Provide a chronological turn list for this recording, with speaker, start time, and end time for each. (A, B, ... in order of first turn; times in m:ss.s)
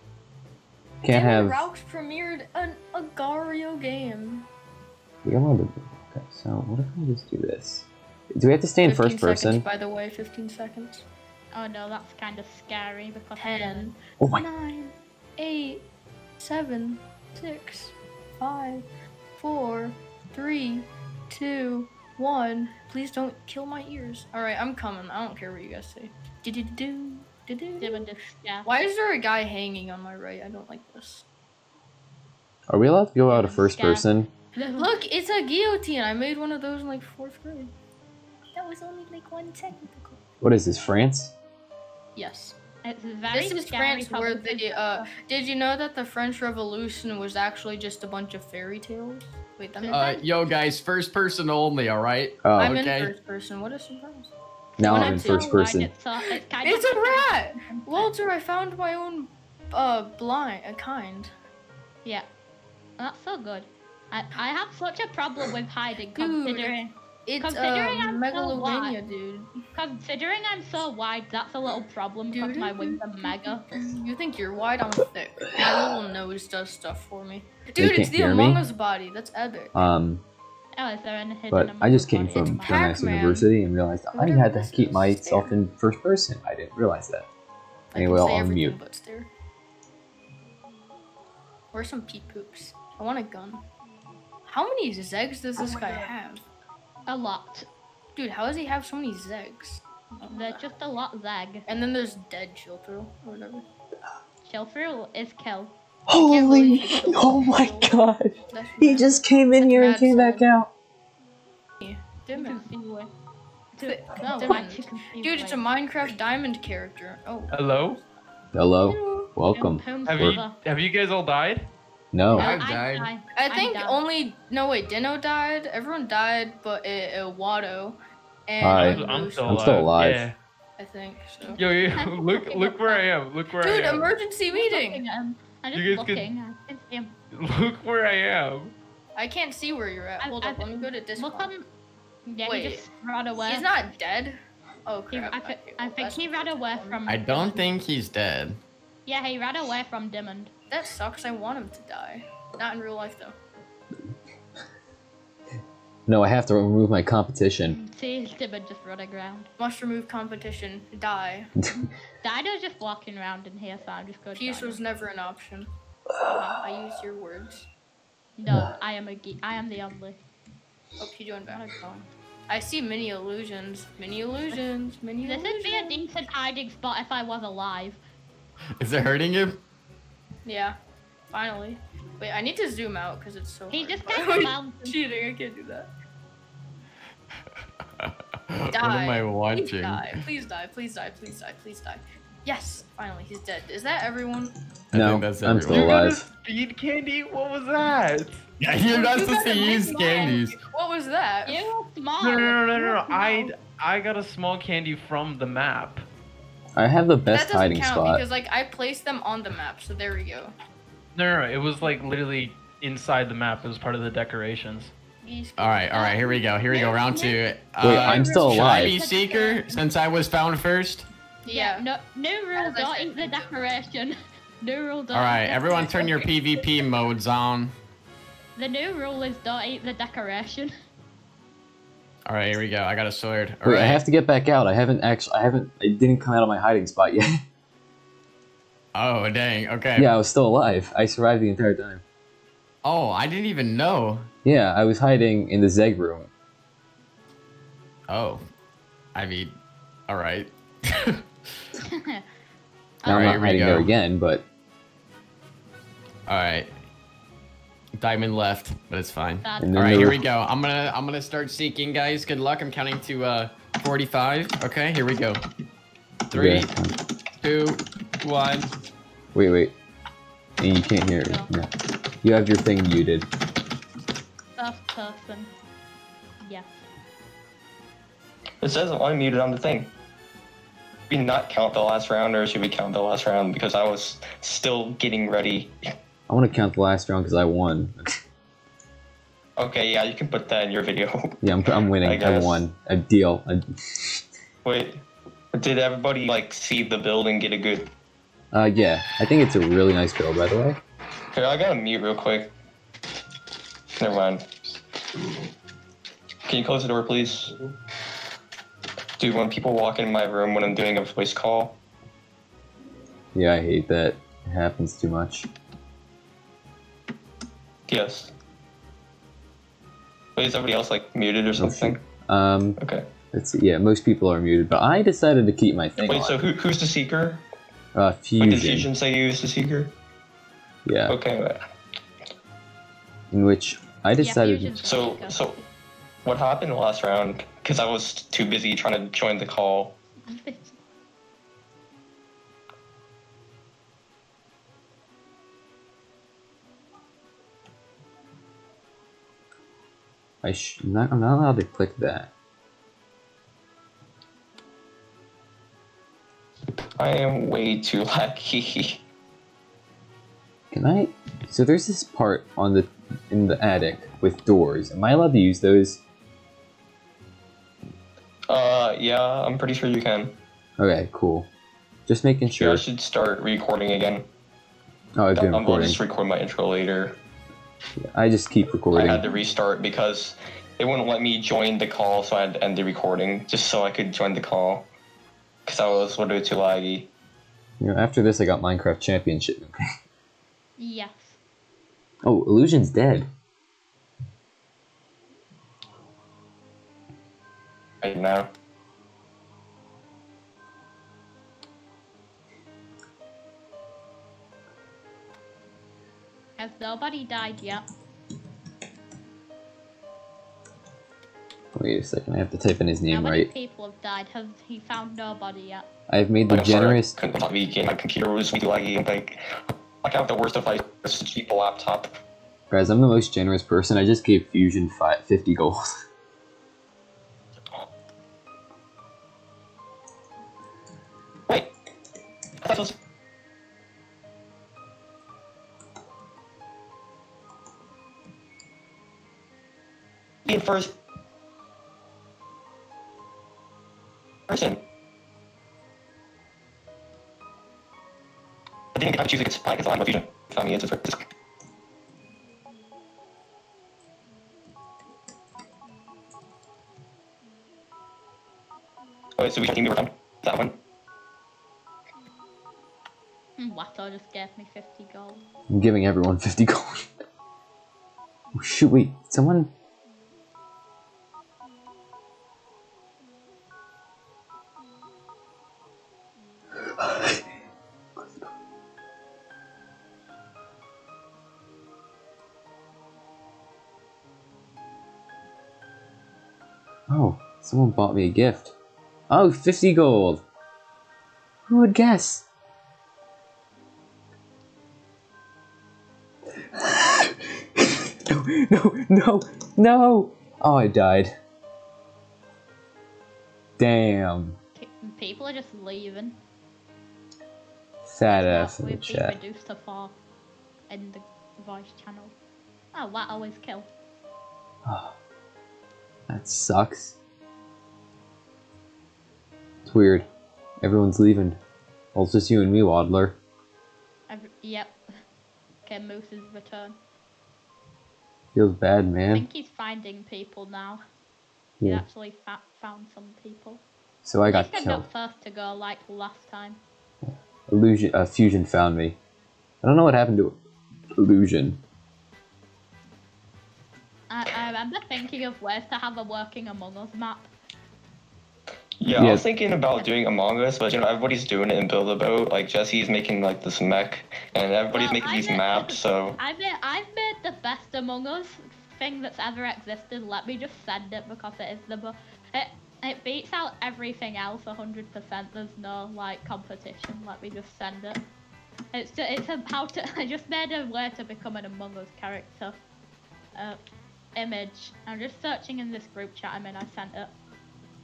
0:01.0-0:01.7 A
0:01.1-0:04.4 B
0:05.2-0:09.6 A
0:08.8-0:11.0 B
0:11.5-0:13.9 C
0:13.4-0:15.8 B
0:14.2-0:14.4 A
0:16.4-0:18.8 B
0:19.4-0:28.1 B
0:27.8-0:28.7 C
0:28.6-0:31.2 B
0:32.7-0:34.3 A
0:33.2-0:34.9 C
0:34.8-0:37.7 B
0:38.5-0:40.2 B
0:40.4-0:41.3 A
0:42.1-0:42.6 B
0:42.8-0:45.1 C
0:43.3-0:50.2 B
0:49.8-0:50.2 C
0:49.9-0:53.1 D
0:52.4-0:52.8 A
0:52.6-0:55.6 B
0:54.8-0:58.1 C
0:54.8-0:55.9 A
0:56.6-1:01.3 B
1:03.0-1:08.9 C
1:06.1-1:09.5 B
1:09.7-1:13.6 C
1:12.3-1:19.7 B
1:17.8-1:18.6 A
1:19.7-1:20.2 A
1:20.8-1:22.8 C
1:21.5-1:27.3 A
1:22.6-1:23.5 B
1:24.1-1:25.6 B
1:27.9-1:29.3 B
1:27.9-1:28.8 A
1:31.7-1:33.6 B
1:34.5-1:36.4 B
1:37.1-1:37.7 C
1:38.2-1:40.6 B
1:40.3-1:41.6 C
1:41.7-1:43.6 B
1:44.4-1:45.7 C
1:46.1-1:50.7 A
1:46.2-1:47.9 B
1:48.5-1:50.4 B
1:51.8-1:52.6 B
1:52.4-1:53.1 C
1:53.7-1:55.6 C
1:53.8-1:57.7 B
1:57.5-1:58.0 E
1:58.5-2:00.4 A
1:58.8-1:59.3 B
1:59.5-2:00.5 C
2:00.0-2:01.7 E
2:02.1-2:02.6 A
2:02.3-2:04.0 C
2:02.4-2:03.1 D
2:03.4-2:09.7 B
2:08.6-2:10.2 A
2:08.7-2:10.3 E
2:10.8-2:11.6 B
2:11.4-2:13.1 C
2:11.6-2:14.2 E
2:13.6-2:15.0 B
2:14.5-2:17.1 C
2:15.7-2:16.3 E
2:17.3-2:18.7 E
2:19.2-2:21.5 B
2:20.2-2:21.6 C
2:22.3-2:23.7 C
2:22.4-2:22.8 B
2:23.4-2:27.0 B
2:25.1-2:27.6 C
2:27.1-2:28.6 D
2:29.0-2:30.5 C
2:30.7-2:33.3 B
2:36.1-2:37.8 A
2:37.6-2:39.5 C
2:39.6-2:41.5 B
2:41.6-2:41.8 A
2:42.2-2:44.8 C
2:44.3-2:45.7 B
2:46.3-2:47.7 B
2:48.4-2:50.2 C
2:51.0-2:51.6 B
2:51.5-2:52.1 C
2:52.5-2:56.0 B
2:55.2-2:58.0 C
2:58.8-2:59.6 D
3:00.4-3:00.8 B
3:01.3-3:05.9 B
3:03.7-3:05.0 C
3:08.0-3:10.1 D
3:08.7-3:14.5 B
3:14.9-3:15.9 D
3:14.9-3:16.2 A
3:15.7-3:18.5 E
3:18.6-3:20.6 D
3:18.9-3:21.7 B
3:19.6-3:20.3 C
3:21.4-3:23.5 C
3:22.2-3:26.0 E
3:22.8-3:23.4 B
3:26.8-3:28.2 A
3:27.3-3:30.5 B
3:31.1-3:34.9 E
3:35.2-3:37.2 B
3:35.6-3:41.1 D
3:36.7-3:39.7 C
3:37.8-3:39.0 A
3:38.0-3:39.0 B
3:41.4-3:41.8 B
3:41.5-3:46.6 C
3:42.6-3:43.6 B
3:45.1-3:47.7 D
3:48.6-3:50.7 C
3:52.2-3:54.0 D
3:53.6-3:57.3 A
3:58.9-4:00.1 D
3:59.9-4:02.0 A
4:02.8-4:04.3 D
4:04.4-4:06.3 A
4:08.1-4:08.4 D
4:09.1-4:09.6 D
4:10.1-4:11.2 D
4:11.8-4:12.2 C
4:13.0-4:13.4 C
4:13.0-4:14.4 A
4:13.1-4:13.9 D
4:16.3-4:16.7 D
4:18.0-4:25.4 D
4:19.4-4:19.7 C
4:19.6-4:20.2 A
4:26.3-4:26.7 D
4:26.3-4:26.9 A
4:27.4-4:28.7 D
4:29.3-4:29.7 A
4:30.6-4:31.7 A
4:31.2-4:31.5 C
4:32.2-4:33.3 A
4:34.6-4:35.5 C
4:36.4-4:36.8 C
4:38.6-4:39.9 F
4:41.1-4:45.7 F
4:46.3-4:48.1 A
4:49.6-4:51.3 F
4:51.4-4:54.2 A
4:52.0-4:52.6 F
4:54.6-4:57.9 F
4:58.5-5:00.8 A
5:01.3-5:02.5 F
5:04.0-5:04.5 F
5:06.4-5:07.5 F
5:09.2-5:11.8 F
5:13.3-5:15.5 A
5:17.9-5:18.3 F
5:20.4-5:22.0 F
5:21.6-5:22.8 A
5:22.8-5:23.0 F
5:23.3-5:26.4 A
5:26.0-5:27.4 F
5:27.9-5:28.9 A
5:28.4-5:29.9 F
5:30.8-5:31.2 A
5:31.1-5:31.6 F
5:33.3-5:34.8 A
5:34.2-5:35.4 C
5:34.8-5:35.6 F
5:36.2-5:39.9 F
5:40.3-5:40.8 C
5:50.4-5:52.3 A
5:57.0-5:59.0 F
6:00.7-6:06.0 A
6:08.5-6:10.4 F
6:10.8-6:11.5 A
6:12.1-6:12.8 A
6:12.5-6:14.3 F
6:15.2-6:16.0 A
6:15.3-6:17.2 F
6:18.0-6:19.2 A
6:18.9-6:24.9 F
6:25.6-6:27.1 F
6:27.8-6:29.8 A
6:30.8-6:31.4 C
6:32.2-6:33.3 A
6:38.0-6:38.5 F
6:46.6-6:47.8 C
6:51.7-6:53.5 A
6:53.1-6:55.8 C
6:56.1-6:57.1 A
6:56.5-6:59.4 F
7:00.0-7:02.2 F
7:02.7-7:05.8 A
7:11.5-7:11.7 F
7:12.6-7:13.0 F
7:20.4-7:21.0 F
7:24.5-7:24.8 F
7:28.9-7:31.2 F
7:39.4-7:40.8 F
7:43.6-7:45.4 C
7:45.7-7:46.9 A
7:48.6-7:49.7 A
7:57.0-7:57.4 A
7:58.2-7:58.5 A
8:07.1-8:08.7 A
8:09.3-8:10.4 A
8:11.7-8:12.4 A
8:16.8-8:21.3 A
8:23.8-8:24.6 A
8:24.8-8:26.4 C
8:28.1-8:29.4 A
8:28.2-8:30.2 C
8:30.9-8:32.3 C
8:32.9-8:33.9 C
8:34.8-8:35.1 A
8:36.3-8:37.2 A
8:39.8-8:40.3 A
8:40.8-8:41.6 A
8:42.1-8:43.4 A
8:44.3-8:45.0 C
8:45.8-8:47.0 C
8:48.5-8:49.5 A
8:49.3-8:51.0 C
8:51.8-8:52.0 A
8:51.8-8:53.8 C
8:54.2-8:55.0 A
8:54.5-8:56.8 C
8:57.2-8:59.2 A
8:59.8-9:00.6 A
9:01.2-9:01.8 A
9:04.3-9:07.5 C
9:09.0-9:16.4 F
9:09.2-9:09.4 A
9:14.9-9:28.2 C
9:28.9-9:32.8 C
9:34.4-9:37.3 C